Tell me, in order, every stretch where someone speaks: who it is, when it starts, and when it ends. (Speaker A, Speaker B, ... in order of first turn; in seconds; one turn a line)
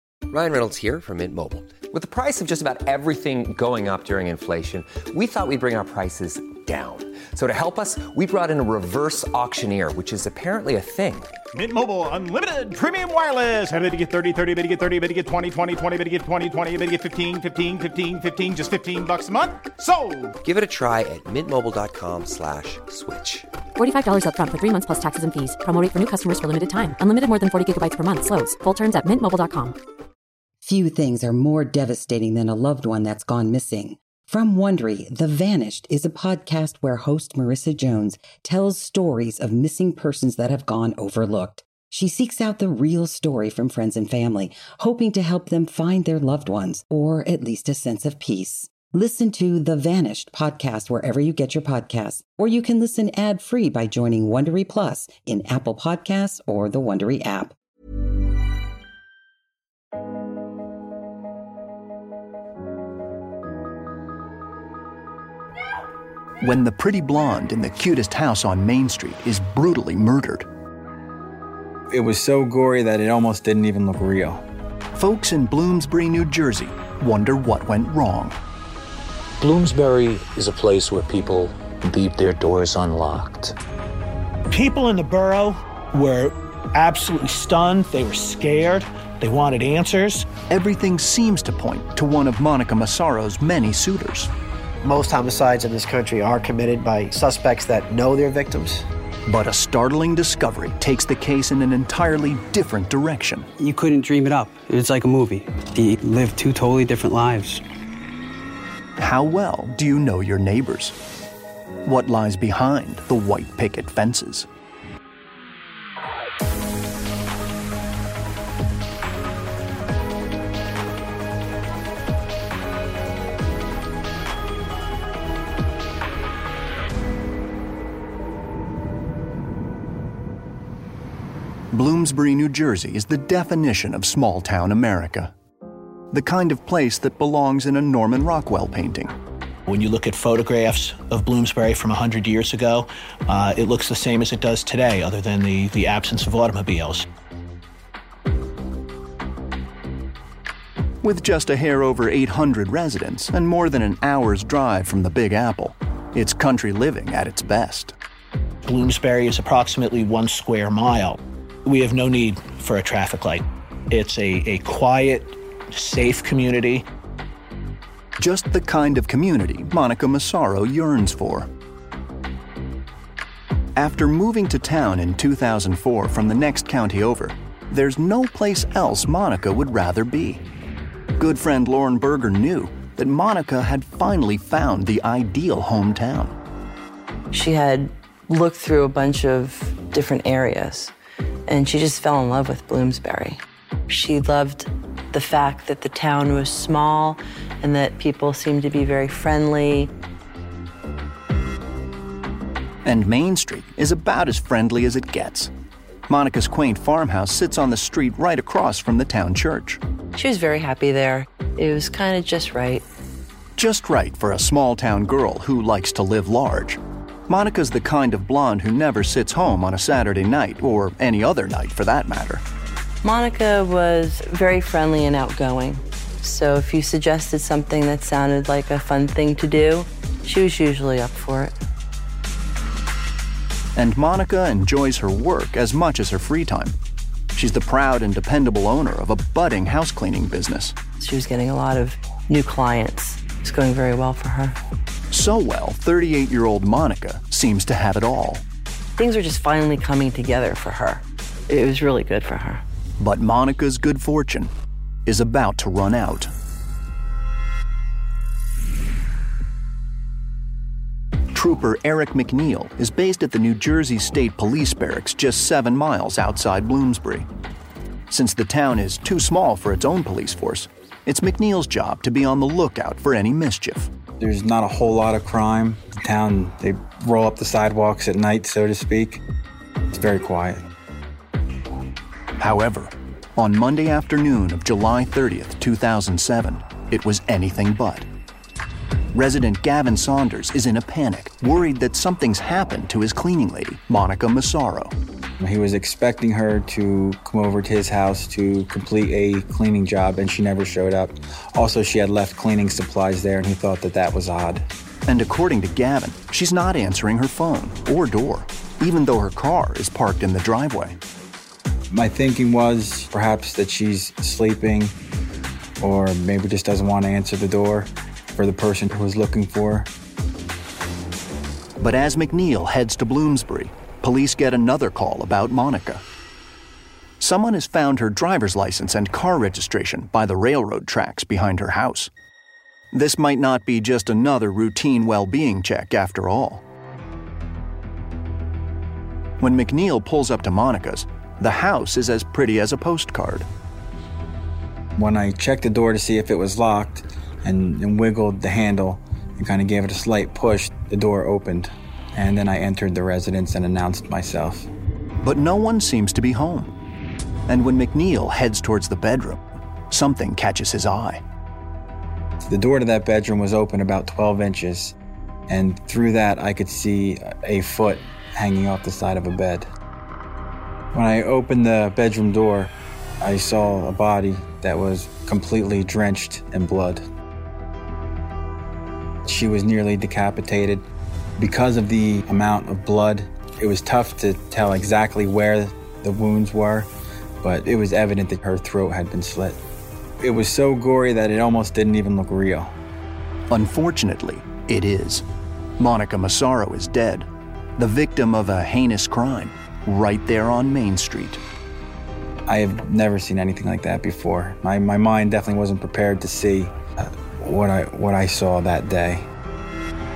Speaker A: 0.3-11.3
Speaker B: 11.5-20.3
Speaker A: 20.4-23.5
Speaker C: 23.8-29.8
Speaker D: 30.6-57.5
Speaker E: 66.4-70.5
Speaker F: 71.9-74.4
Speaker E: 74.9-78.4
Speaker G: 79.4-83.5
Speaker H: 84.5-90.3
Speaker E: 90.5-94.3
Speaker I: 94.8-98.8
Speaker E: 99.2-103.5
Speaker J: 103.6-107.6
Speaker E: 109.0-111.0
Speaker E: 111.8-114.5
Speaker E: 131.7-135.3
Speaker E: 136.1-139.2
Speaker H: 139.7-147.1
Speaker E: 151.0-157.9
Speaker H: 158.6-166.8
Speaker E: 168.2-171.5
Speaker E: 173.7-180.4
Speaker E: 181.2-186.3
Speaker K: 187.3-190.9
Speaker K: 191.5-199.9
Speaker E: 202.8-205.5
Speaker E: 206.1-209.8
Speaker K: 210.1-212.8
Speaker E: 213.6-222.4
Speaker K: 223.0-231.5
Speaker E: 233.7-236.8
Speaker E: 237.3-240.8
Speaker K: 241.0-244.6
Speaker E: 245.1-248.4
Speaker K: 249.0-252.6
Speaker E: 253.0-254.5
Speaker E: 255.1-256.3
Speaker E: 261.3-267.3
Speaker E: 268.1-273.9
Speaker F: 274.2-279.2
Speaker F: 279.9-280.6
Speaker E: 282.4-288.1
Speaker E: 289.1-294.9
Speaker F: 295.4-304.6
Speaker E: 305.1-311.0
Speaker F: 311.9-314.9
Speaker F: 315.8-319.9
Speaker E: 321.8-326.0
Speaker E: 327.2-332.1
Speaker E: 332.9-336.6
Speaker E: 339.4-343.5
Speaker F: 344.9-354.7
Speaker E: 355.2-356.7
Speaker E: 357.5-361.2
Speaker F: 362.4-364.9
Speaker F: 365.5-369.7
Speaker F: 370.9-372.7
Speaker F: 373.2-377.0
Speaker F: 379.2-380.8
Speaker F: 381.4-386.9
Speaker F: 387.4-389.6
Speaker F: 390.2-392.7
Speaker E: 393.5-395.2
Speaker E: 395.8-401.4
Speaker F: 402.4-409.2